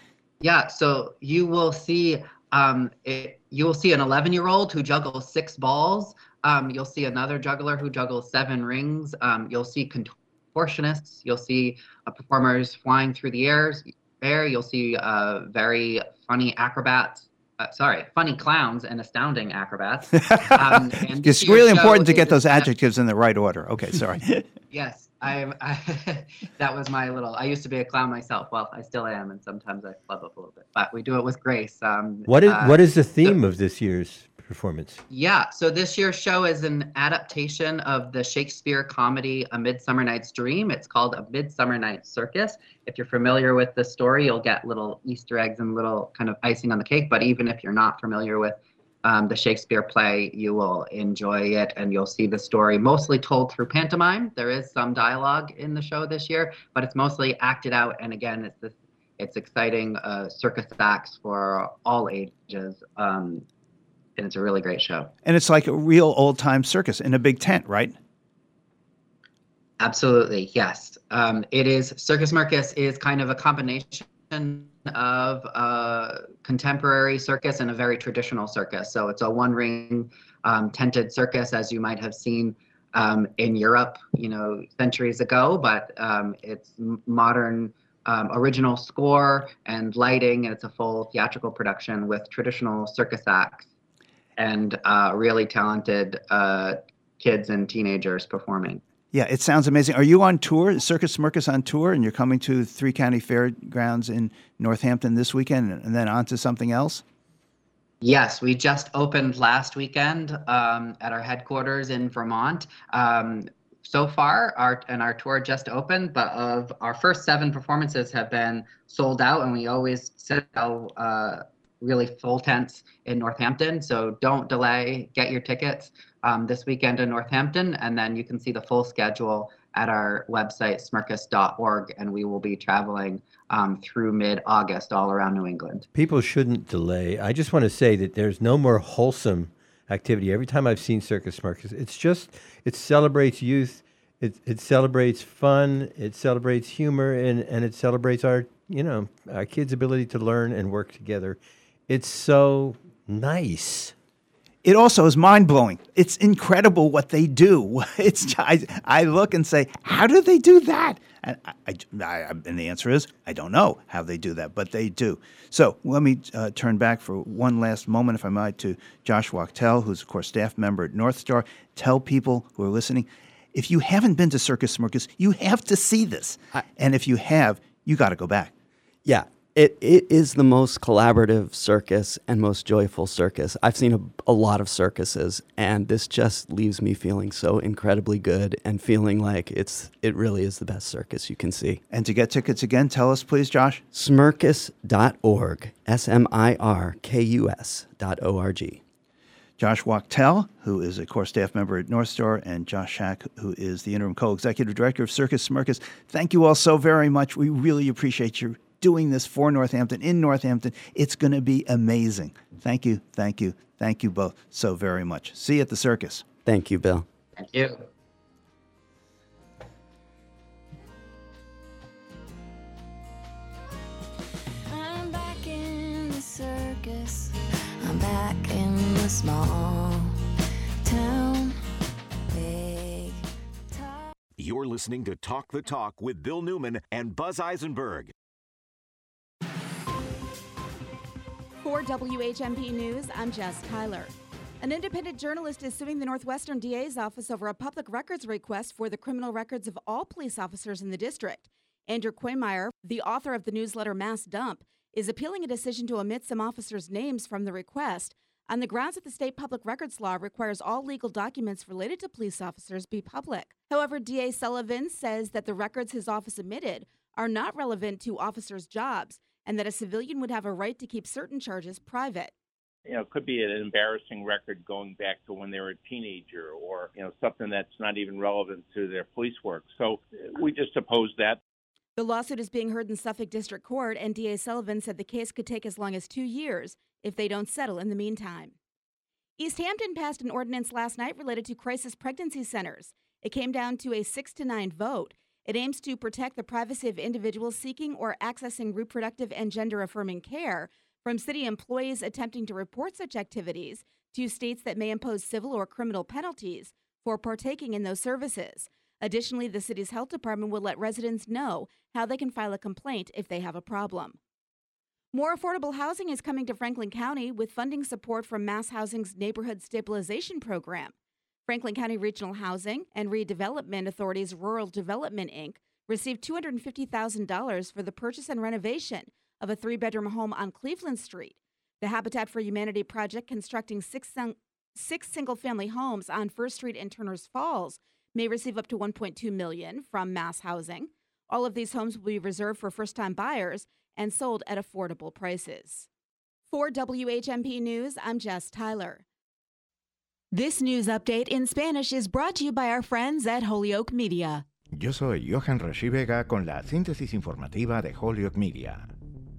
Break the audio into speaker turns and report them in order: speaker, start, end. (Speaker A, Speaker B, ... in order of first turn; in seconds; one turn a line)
Speaker A: 0.4-22.7
Speaker B: 20.1-24.4
Speaker A: 24.7-33.4
Speaker C: 32.3-35.0
Speaker A: 35.1-63.5
Speaker A: 64.2-65.1
Speaker B: 65.2-68.0
Speaker A: 69.8-93.7
Speaker A: 94.4-98.8
Speaker B: 99.1-107.0
Speaker A: 108.0-135.9
Speaker C: 135.9-153.9
Speaker B: 154.6-178.5
Speaker D: 179.1-191.8
Speaker B: 191.9-193.8
Speaker D: 193.9-198.8
Speaker B: 199.6-216.2
Speaker D: 216.4-217.1
Speaker A: 217.4-217.8
Speaker E: 224.7-230.2
Speaker E: 230.8-231.6
Speaker E: 232.3-234.1
Speaker F: 234.4-238.1
Speaker G: 241.6-272.3
Speaker H: 272.9-281.4
Speaker G: 282.0-288.6
Speaker G: 289.4-314.2
Speaker G: 315.1-320.9
Speaker G: 321.5-345.9
Speaker G: 346.5-349.0
Speaker G: 350.3-354.4
Speaker I: 354.7-358.9